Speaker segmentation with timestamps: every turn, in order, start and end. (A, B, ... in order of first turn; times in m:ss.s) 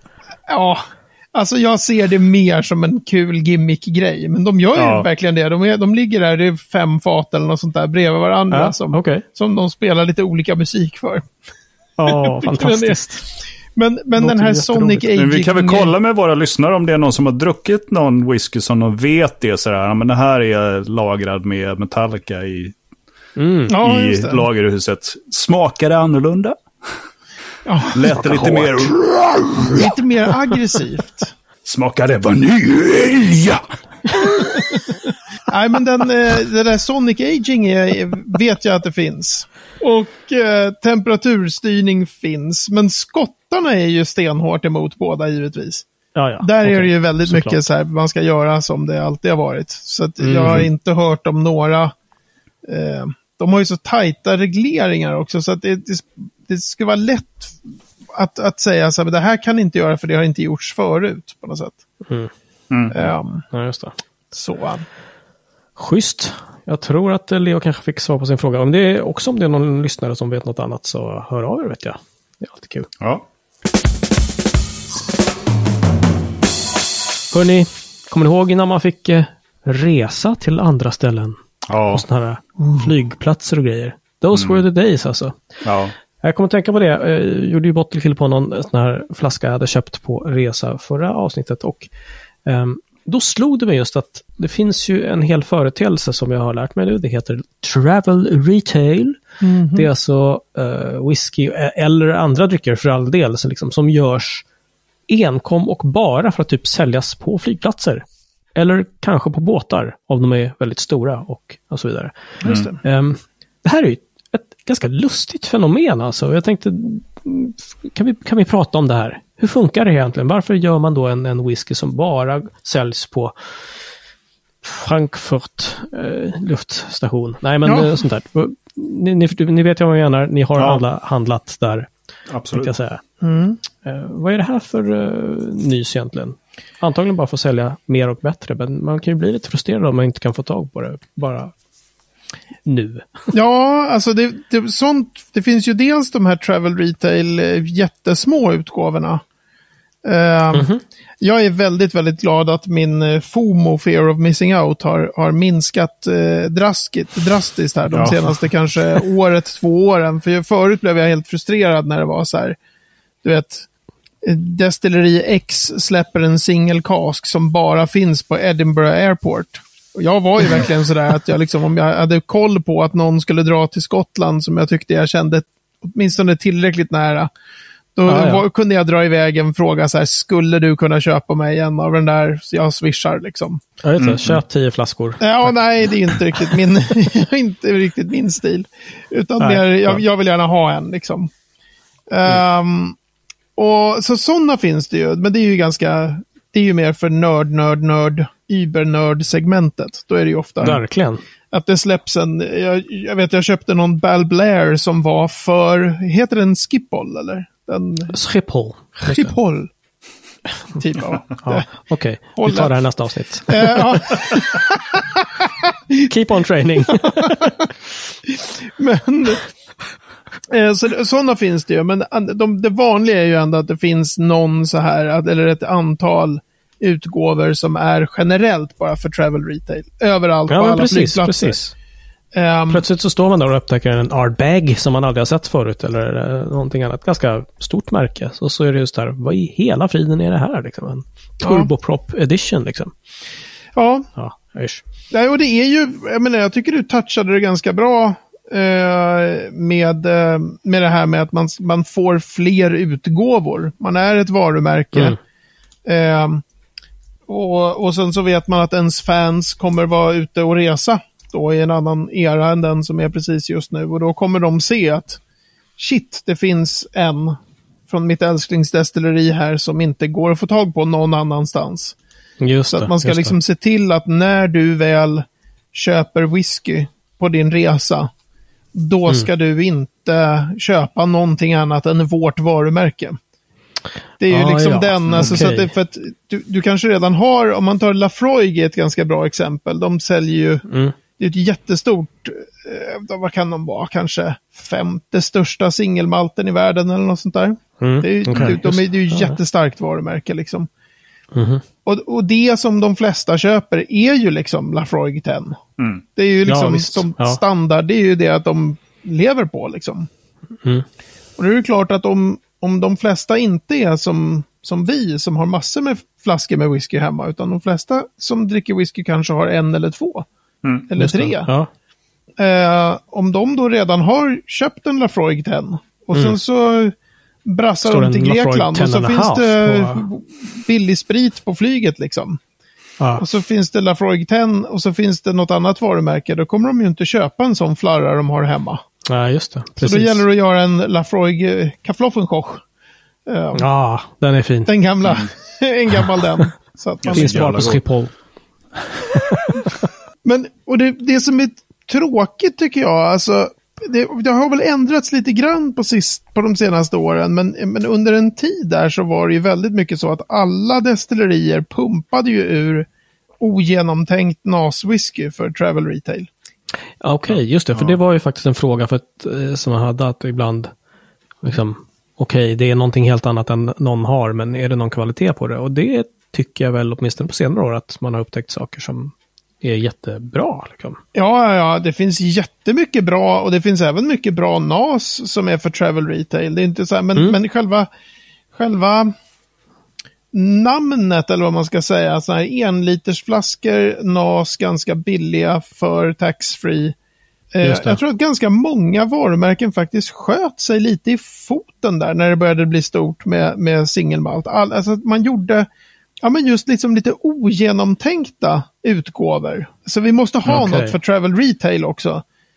0:00.5-0:11.2 A
0:04.8-0:05.1 B
0:08.5-0:09.2 C
0:12.0-0:13.2 C
0:12.0-0:13.0 A
0:13.7-0:15.9 A
0:14.2-0:15.1 C
0:15.1-0:22.7 B
0:23.4-0:23.7 C
0:23.7-0:24.5 A
0:23.8-0:26.6 B
0:27.6-0:28.5 A
0:27.9-0:29.9 B
0:28.1-0:28.8 C
0:29.7-0:31.3 A
0:31.6-0:33.6 B
0:35.5-0:45.8 A
0:46.1-0:47.6 C
0:46.4-0:51.9 A
0:50.2-0:50.7 C
0:52.6-1:01.8 A
1:02.7-1:03.0 B
1:02.9-1:03.4 A
1:03.5-1:04.0 C
1:04.3-1:04.8 A
1:05.8-1:12.9 C
1:17.3-1:21.4 C
1:21.7-1:22.0 B
1:21.9-1:25.4 C
1:24.3-1:24.6 B
1:25.6-1:25.9 B
1:26.2-1:31.9 C
1:32.4-1:39.2 C
1:39.4-1:39.9 A
1:39.7-1:44.4 C
1:45.1-1:48.0 C
1:48.5-2:03.5 C
1:52.4-1:52.7 B
1:52.4-1:52.8 A
2:04.6-2:11.9 C
2:07.6-2:07.9 A
2:10.6-2:10.8 B
2:12.3-2:12.7 B
2:12.5-2:13.0 C
2:13.2-2:13.6 A
2:13.8-2:21.5 C
2:22.6-2:23.3 C
2:23.3-2:29.2 A
2:30.0-2:30.7 A
2:30.5-2:30.8 C
2:31.2-2:42.6 A
2:37.9-2:38.3 B
2:43.2-2:43.7 A
2:44.2-2:57.3 A
2:57.9-3:03.6 A
2:58.1-2:58.4 C
3:03.8-3:05.6 C
3:04.0-3:04.4 B
3:05.2-3:11.3 A
3:09.4-3:10.0 C
3:12.1-3:13.0 A
3:13.6-3:20.8 A
3:20.6-3:21.2 C
3:21.5-3:28.1 A
3:28.1-3:29.3 C
3:29.0-3:29.7 A
3:30.7-3:31.7 A
3:31.4-3:34.0 C
3:32.4-3:32.7 A
3:33.5-3:36.1 A
3:36.0-3:37.5 C
3:36.8-3:37.7 A
3:38.2-3:39.4 A
3:40.5-3:51.6 A
3:50.5-3:51.7 C
3:52.3-3:52.8 A
3:52.7-4:02.9 C
4:01.4-4:01.7 A
4:03.7-4:04.1 A
4:04.2-4:04.8 C
4:05.1-4:15.2 A
4:15.8-4:16.4 A
4:17.3-4:25.2 A
4:25.8-4:32.0 A
4:32.4-4:33.3 C
4:32.7-4:38.1 A
4:38.7-4:43.2 A
4:44.2-4:50.6 A
4:44.3-4:45.7 C
4:50.7-4:50.9 C
4:51.2-5:00.7 A
4:57.8-4:59.4 C
5:01.3-5:01.6 C
5:01.8-5:05.6 A
5:05.8-5:06.0 B
5:06.2-5:10.1 A
5:06.4-5:07.4 C
5:11.4-5:20.3 A
5:20.9-5:21.5 A
5:21.0-5:21.7 C
5:22.4-5:32.4 A
5:27.8-5:30.0 C
5:33.2-5:38.8 A
5:39.1-5:40.2 C
5:39.8-5:42.6 A
5:43.2-5:43.6 A
5:43.5-5:44.7 C
5:44.7-5:47.6 A
5:47.0-5:47.8 B
5:47.1-5:48.1 C
5:49.1-5:49.7 C
5:50.2-6:02.9 A
6:03.4-6:06.3 A
6:07.0-6:10.7 C
6:11.4-6:21.0 C
6:21.1-6:27.9 A
6:28.5-6:29.1 A
6:30.3-6:36.9 A
6:37.5-6:45.7 A
6:37.6-6:38.0 C
6:46.2-6:52.2 A
6:50.5-6:51.0 C